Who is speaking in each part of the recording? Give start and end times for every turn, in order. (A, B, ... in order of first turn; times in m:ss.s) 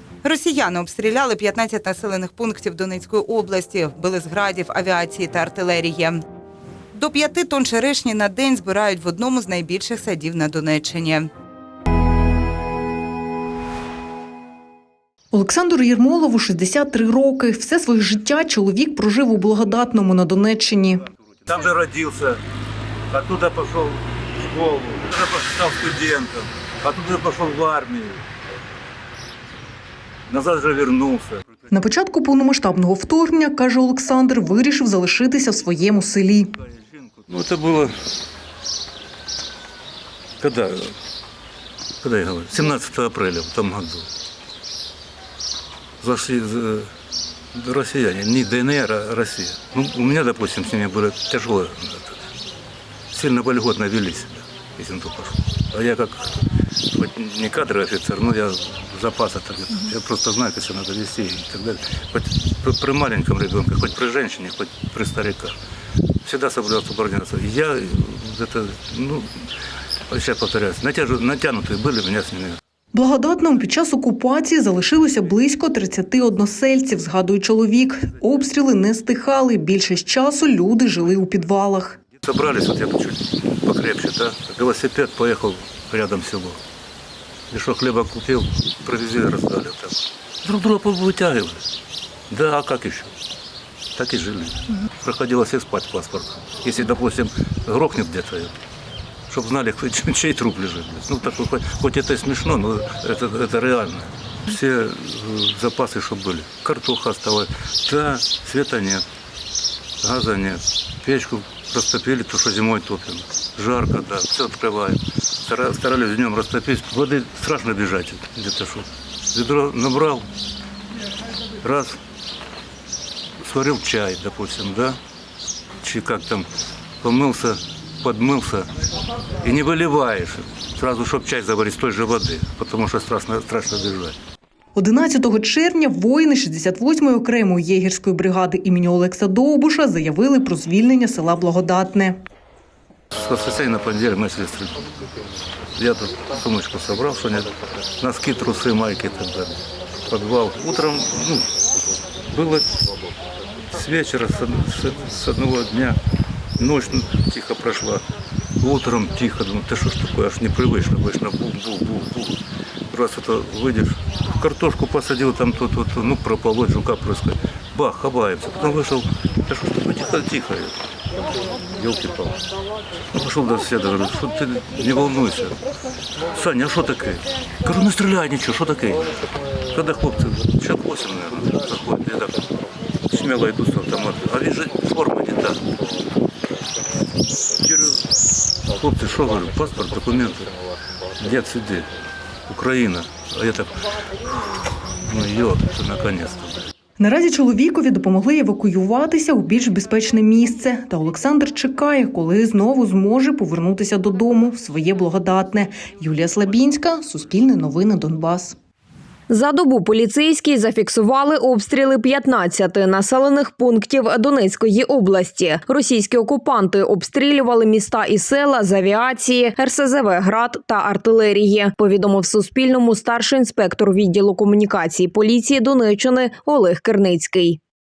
0:00.2-0:06.2 A
0:07.0-0:11.3 A
0:15.3-0:21.0 B
0:21.5-0:22.4 C
0:23.1-0:28.2 C
0:30.3-0:31.5 C
0:31.7-0:36.5 B
0:37.2-0:37.9 C
0:40.4-0:40.9 C
0:42.0-0:44.1 C
0:46.0-0:46.9 C
0:47.5-0:52.2 C
0:53.1-0:56.3 C
0:56.9-1:05.6 C
1:06.2-1:09.3 C
1:10.1-1:12.6 C
1:12.9-1:22.0 B
1:22.2-1:26.6 C
1:27.5-1:31.6 C
1:32.3-1:33.1 C
1:34.0-1:38.5 C
1:39.3-1:49.0 C
1:50.0-2:00.3 C
2:01.6-2:02.0 C
2:03.4-2:05.0 C
2:05.8-2:06.5 C
2:07.0-2:08.7 C
2:09.4-2:14.2 C
2:14.8-2:22.2 B
2:23.1-2:24.8 C
2:25.8-2:31.5 C
2:32.3-2:32.9 C
2:33.7-2:36.0 C
2:36.6-2:38.0 C
2:38.6-2:42.4 C
2:42.9-2:50.7 C
2:51.7-2:52.4 C
2:53.2-2:55.6 C
2:56.4-2:59.1 C
2:59.7-3:02.4 C
3:03.1-3:05.6 C
3:07.6-3:08.0 C
3:08.8-3:10.5 C
3:11.2-3:11.9 C
3:12.5-3:13.7 C
3:15.1-3:16.7 C
3:17.0-3:28.6 B
3:29.3-3:47.6 D